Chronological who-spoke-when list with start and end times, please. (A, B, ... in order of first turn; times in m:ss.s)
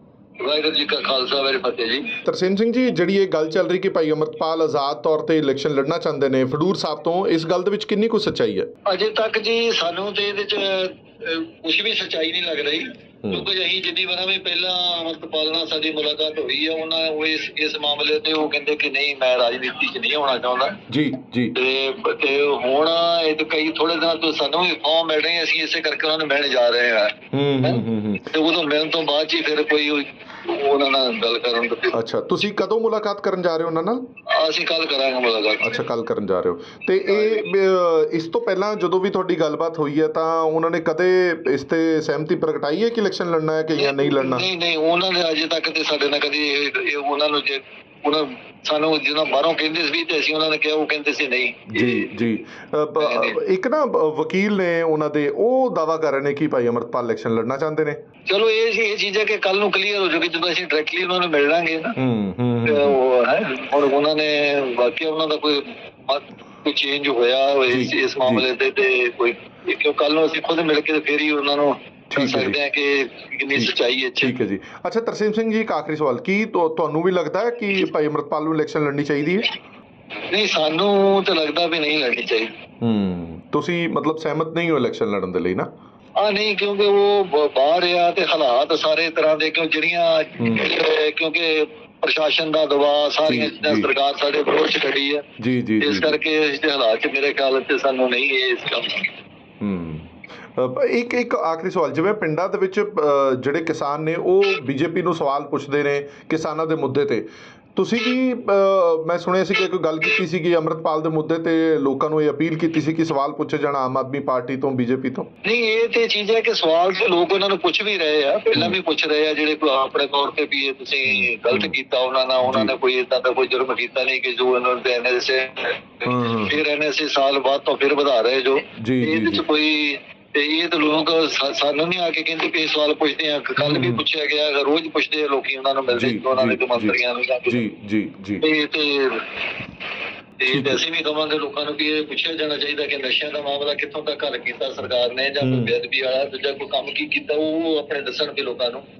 0:00.4-0:02.1 A
0:02.2-0:08.7 B
0:08.9-0:20.8 A
0:20.9-0:21.6 B
0:21.6-0:32.0 A
0:27.3-0:28.3 B
0:31.9-0:34.0 B
0:34.3-0:35.8 A
0:35.6-0:44.5 B
0:37.1-0:37.5 A
0:43.7-0:52.1 A
0:51.7-0:58.0 B
0:53.0-0:53.4 A
0:58.3-1:02.0 A
1:02.0-1:03.0 B
1:02.7-1:14.3 A
1:07.7-1:08.4 B
1:12.1-1:12.6 B
1:13.5-1:19.5 B
1:20.3-1:22.5 A
1:22.8-1:25.7 B
1:26.2-1:35.2 A
1:30.4-1:30.7 B
1:33.3-1:33.9 B
1:35.4-1:36.2 B
1:35.8-1:39.1 A
1:39.6-1:55.3 B
1:55.4-2:17.6 A
2:01.0-2:01.7 B
2:02.4-2:02.7 B
2:06.0-2:06.6 B
2:08.8-2:09.4 B
2:13.6-2:14.0 B
2:15.9-2:18.4 B
2:18.4-2:19.2 A
2:20.4-2:28.8 A
2:20.5-2:20.8 B
2:25.4-2:25.7 B